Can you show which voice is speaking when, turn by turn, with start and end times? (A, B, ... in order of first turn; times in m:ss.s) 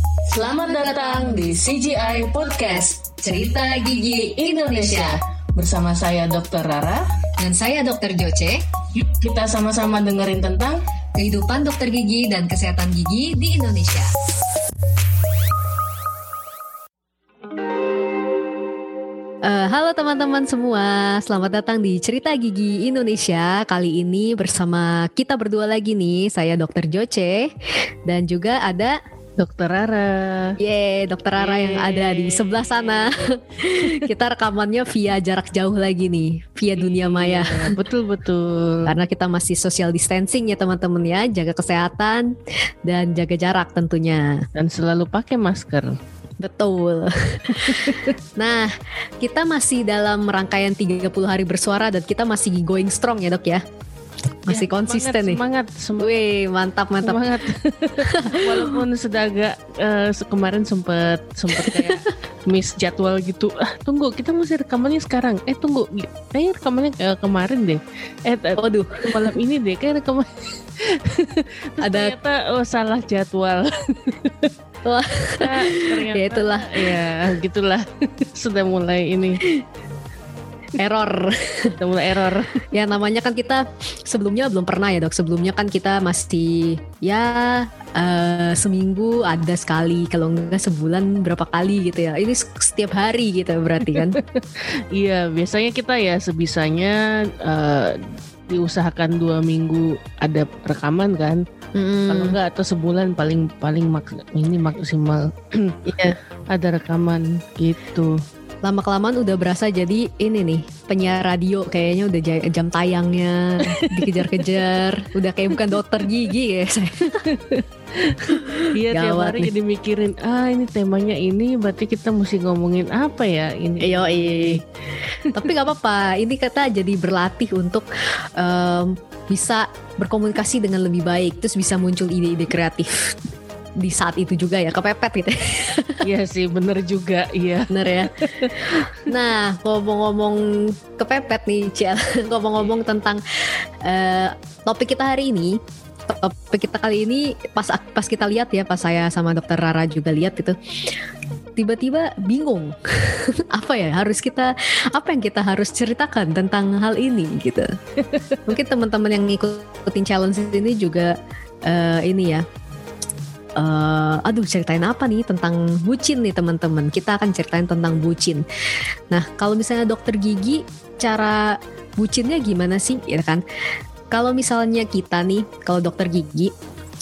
0:00.3-0:03.2 A
0:03.0-0:05.2 B
0:04.4-0:07.1 A
0:07.4-0:08.6 B
0:08.9-0:10.8 A
0:11.2-0:14.1 B
0:19.4-0:27.5 B
0:28.0-0:29.0 B
0:29.4-0:30.6 C
0:30.6-0:37.8 B
0:31.4-0:34.1 C
0:36.7-0:38.9 C
0:38.8-0:42.3 B
0:42.8-0:44.5 B
0:44.5-0:46.0 C
0:46.4-0:53.6 B
0:47.5-0:48.1 C
0:54.4-0:55.4 B
0:54.5-0:56.1 C
0:56.0-0:57.3 B
0:57.0-1:14.5 C
0:58.0-0:58.8 B
1:01.5-1:02.0 B
1:08.6-1:09.2 B
1:11.8-1:12.1 B
1:14.8-1:16.8 B
1:15.4-1:19.4 C
1:20.8-1:21.8 B
1:21.8-1:22.6 C
1:22.7-1:34.2 B
1:33.9-1:41.4 C
1:41.8-1:42.4 B
1:42.1-1:48.2 C
1:48.6-1:57.3 B
1:53.6-1:54.5 C
1:57.2-2:04.6 C
1:58.3-1:59.5 B
2:03.8-2:04.6 B
2:05.2-2:05.5 C
2:05.3-2:07.8 B
2:08.4-2:13.2 B
2:13.8-2:16.0 B
2:16.0-2:18.8 C
2:17.7-2:30.6 B
2:31.6-2:37.7 B
2:38.4-2:42.4 B
2:43.6-2:48.4 B
2:49.1-2:53.4 B
2:54.1-2:56.5 B